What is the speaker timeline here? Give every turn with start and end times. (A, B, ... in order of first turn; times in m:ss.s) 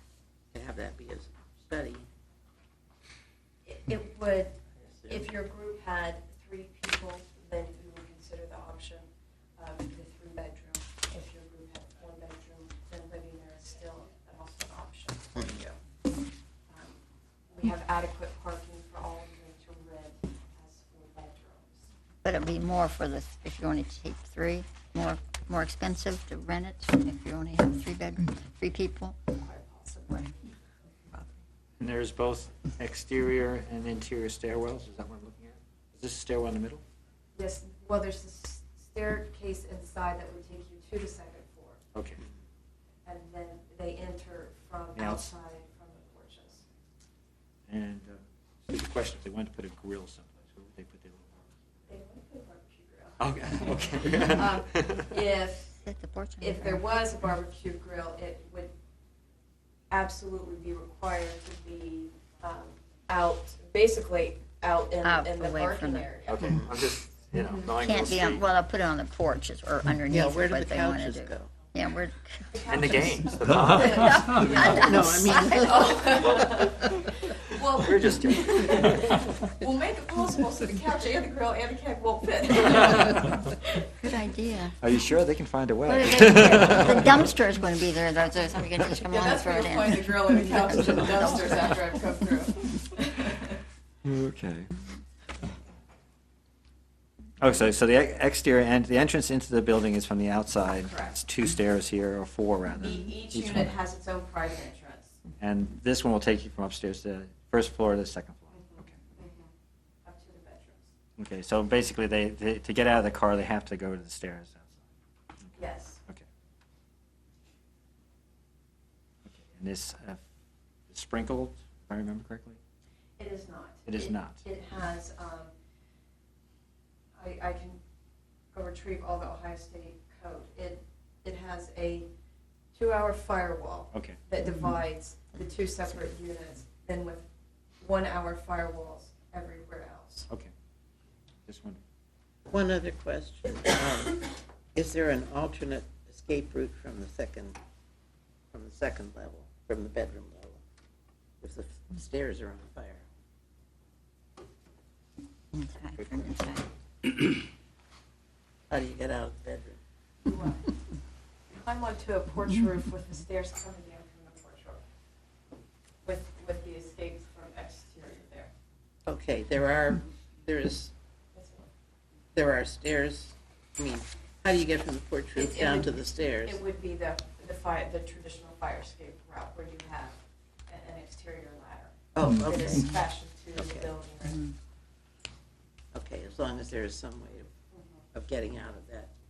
0:00.5-0:02.1 A
0:03.7-0:04.6 B
0:04.8-0:05.3 A
0:05.1-0:15.8 B
0:16.7-0:21.9 B
0:22.2-0:29.2 C
0:29.3-0:30.5 B
0:31.8-0:36.8 D
0:37.4-0:41.8 B
0:41.9-0:42.2 D
0:43.0-0:46.6 B
0:45.0-0:45.3 D
0:47.7-0:51.6 D
0:51.9-0:55.8 B
0:53.2-0:55.0 D
0:55.8-0:56.8 C
0:56.4-0:58.7 B
0:59.9-1:06.5 B
1:05.0-1:06.1 C
1:06.2-1:08.5 D
1:06.4-1:06.7 A
1:07.4-1:07.7 B
1:07.7-1:12.7 C
1:10.1-1:11.5 A
1:12.5-1:24.2 B
1:12.7-1:14.8 D
1:13.9-1:16.4 C
1:14.7-1:16.6 A
1:17.3-1:19.2 D
1:24.0-1:24.8 C
1:24.8-1:27.3 D
1:25.9-1:31.8 C
1:29.1-1:33.6 B
1:34.0-1:34.7 D
1:37.4-1:43.7 D
1:40.8-1:41.2 B
1:42.8-1:45.2 B
1:45.4-1:49.0 D
1:48.5-1:49.5 B
1:50.0-1:50.9 B
1:51.2-1:54.8 D
1:55.6-1:56.0 B
1:59.2-2:00.2 D
2:00.9-2:02.6 D
2:03.2-2:05.5 B
2:03.9-2:04.4 D
2:07.2-2:07.8 B
2:08.5-2:12.1 B
2:12.8-2:17.2 B
2:17.8-2:20.3 B
2:21.5-2:21.8 D
2:22.5-2:27.6 A
2:28.5-2:30.6 A
2:31.4-2:33.0 A
2:35.5-2:36.7 C
2:36.0-2:36.3 D
2:38.7-2:39.8 A
2:40.2-2:40.7 B
2:41.6-2:44.8 B
2:46.0-2:48.5 B
2:49.1-2:50.9 A
2:51.3-2:51.7 B
2:52.4-2:56.6 A
2:55.4-3:04.4 B
3:02.2-3:02.9 A
3:03.6-3:03.9 A
3:04.2-3:04.6 C
3:05.9-3:07.5 A
3:07.7-3:08.0 B
3:08.1-3:09.1 A